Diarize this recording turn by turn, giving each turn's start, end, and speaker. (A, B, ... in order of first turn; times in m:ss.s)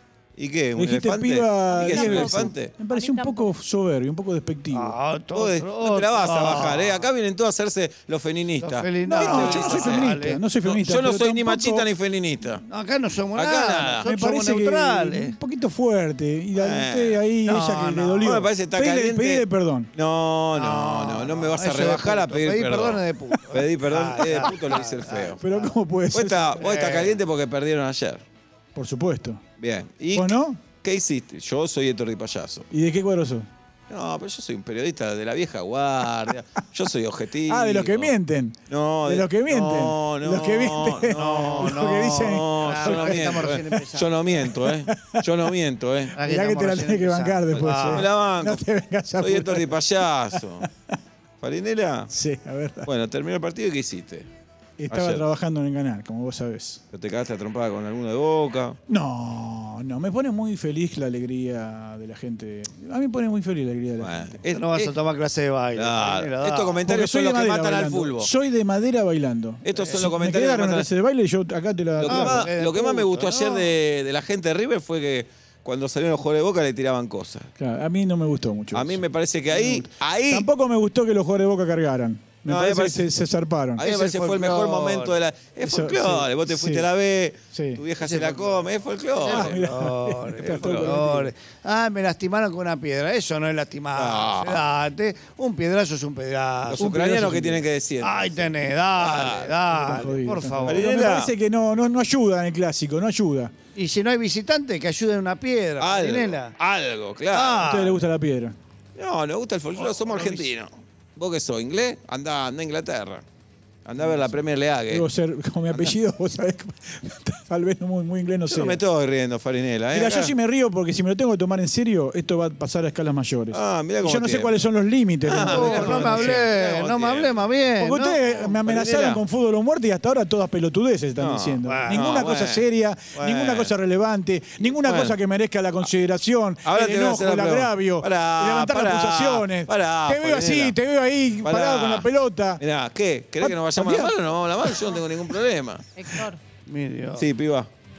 0:00.4-0:02.7 A
0:00.8-0:05.0 B
0:01.7-0:03.5 C
0:04.7-0:07.1 D
0:05.3-0:12.6 A
0:08.6-0:10.4 D
0:09.0-0:11.9 B
0:12.6-0:15.4 D
0:13.3-0:14.1 A
0:14.0-0:19.9 B
0:16.6-0:17.2 A
0:17.4-0:18.3 D
0:18.2-0:25.4 A
0:20.5-0:25.7 D
0:25.4-0:26.6 B
0:26.1-0:28.2 A
0:26.6-0:27.2 D
0:28.8-0:29.4 B
0:29.6-0:32.7 A
0:30.1-0:30.6 B
0:32.7-0:33.5 B
0:33.9-0:38.1 A
0:37.5-0:43.6 B
0:38.7-0:46.2 A
0:41.1-0:44.1 D
0:44.5-0:45.2 B
0:46.2-0:48.1 D
0:46.2-0:49.8 B
0:47.9-0:48.7 A
0:49.2-0:50.7 A
0:51.4-0:52.1 A
0:52.1-0:52.9 B
0:52.8-0:54.3 A
0:54.8-0:56.8 B
0:54.9-0:55.3 A
0:56.9-0:58.8 A
0:58.9-1:04.4 B
1:04.0-1:05.0 A
1:04.5-1:06.8 D
1:05.7-1:08.3 A
1:06.8-1:12.5 B
1:09.6-1:10.9 A
1:09.7-1:10.0 D
1:12.0-1:13.7 D
1:12.0-1:17.5 A
1:17.6-1:23.9 B
1:18.7-1:20.5 A
1:22.5-1:23.1 A
1:23.8-1:29.6 A
1:23.8-1:25.2 D
1:25.6-1:26.9 B
1:27.5-1:27.8 B
1:28.0-1:37.4 D
1:29.3-1:31.3 B
1:30.4-1:31.0 A
1:33.9-1:34.6 A
1:36.7-1:39.6 A
1:36.8-1:37.6 B
1:38.0-1:40.9 D
1:39.7-1:43.5 B
1:40.7-1:41.3 A
1:43.8-1:46.5 D
1:45.8-1:47.7 A
1:47.3-1:48.0 D
1:47.6-1:48.6 B
1:49.0-1:53.2 A
1:49.8-1:50.5 D
1:53.8-1:55.1 A
1:54.9-1:58.8 B
1:58.5-2:00.3 A
1:59.9-2:06.5 B
2:03.5-2:04.6 A
2:05.2-2:07.4 A
2:05.3-2:08.5 D
2:07.8-2:22.6 B
2:08.6-2:09.2 A
2:11.2-2:13.7 A
2:11.6-2:12.1 D
2:14.6-2:15.2 A
2:16.6-2:20.8 A
2:21.4-2:25.9 A
2:23.4-2:24.1 B
2:26.0-2:26.4 C
2:26.7-2:27.3 D
2:27.1-2:27.7 A